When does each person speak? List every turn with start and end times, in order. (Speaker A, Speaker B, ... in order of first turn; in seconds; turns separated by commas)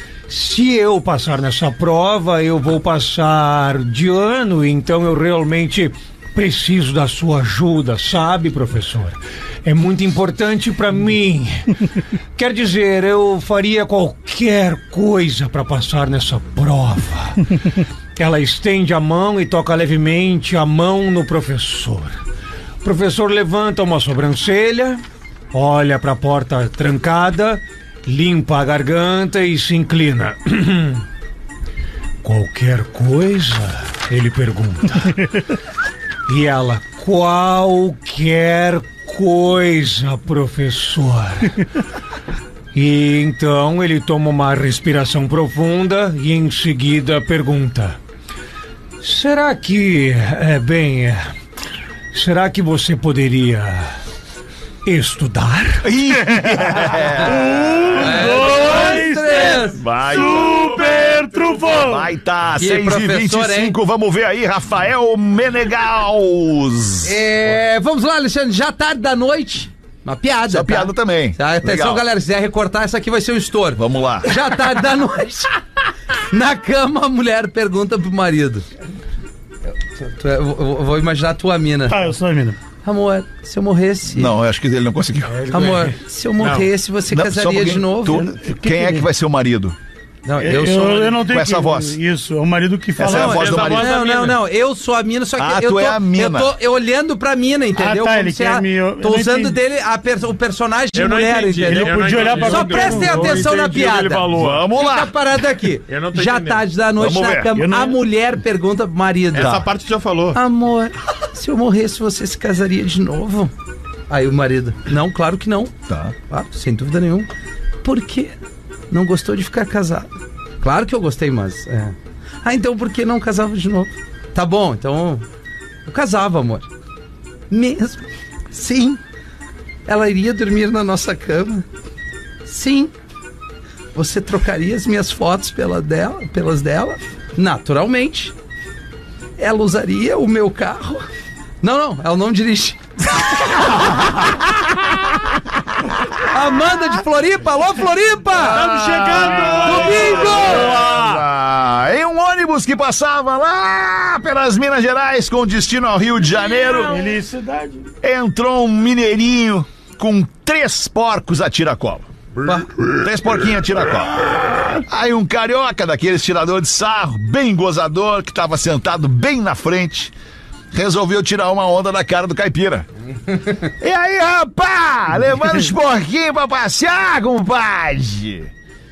Speaker A: 0.3-11.8, Speaker A: 12.4-17.6, Speaker A: 18.1-22.2, Speaker A: 22.8-31.0, Speaker A: 32.2-35.3, Speaker A: 36.3-41.6, Speaker A: 42.7-48.0, Speaker A: 49.0-51.3, Speaker A: 52.1-53.9, Speaker A: 54.9-55.9, Speaker B: 55.8-58.2, Speaker C: 56.2-62.1, Speaker D: 58.0-59.8, Speaker B: 59.7-67.2, Speaker D: 62.6-63.8, Speaker D: 67.0-75.5, Speaker B: 70.5-72.0, Speaker B: 73.8-74.3, Speaker D: 76.3-78.7, Speaker D: 79.9-82.0, Speaker C: 81.9-82.6, Speaker D: 82.8-84.3, Speaker B: 84.1-85.4, Speaker A: 85.3-85.9, Speaker D: 85.5-88.3, Speaker E: 86.4-86.7, Speaker B: 87.1-89.8, Speaker C: 88.2-89.0, Speaker D: 90.2-91.2, Speaker C: 90.4-93.8, Speaker B: 91.2-92.0, Speaker B: 93.0-93.9, Speaker D: 93.1-109.6, Speaker E: 93.1-94.4, Speaker B: 95.4-96.5, Speaker C: 97.7-99.6, Speaker E: 100.9-102.9, Speaker C: 101.6-103.5, Speaker A: 102.2-104.5, Speaker B: 104.3-105.1, Speaker E: 105.9-106.7, Speaker B: 107.0-107.5, Speaker C: 107.5-108.0, Speaker E: 109.3-110.4, Speaker B: 109.4-109.7, Speaker D: 110.3-113.5, Speaker D: 114.1-115.7, Speaker B: 115.9-116.1, Speaker D: 116.3-117.3, Speaker D: 117.8-118.3, Speaker D: 118.9-120.1, Speaker D: 120.6-125.2, Speaker D: 125.9-126.7, Speaker D: 127.5-129.0, Speaker D: 129.9-131.7, Speaker D: 132.4-132.9, Speaker D: 133.9-138.3, Speaker D: 139.4-141.1, Speaker D: 141.6-144.4, Speaker D: 146.2-148.7, Speaker C: 148.5-150.4, Speaker B: 148.5-157.0, Speaker E: 148.8-150.5, Speaker D: 149.5-150.8, Speaker C: 156.8-157.9, Speaker B: 158.0-162.1, Speaker B: 162.8-170.1, Speaker B: 170.7-172.9, Speaker B: 173.6-178.5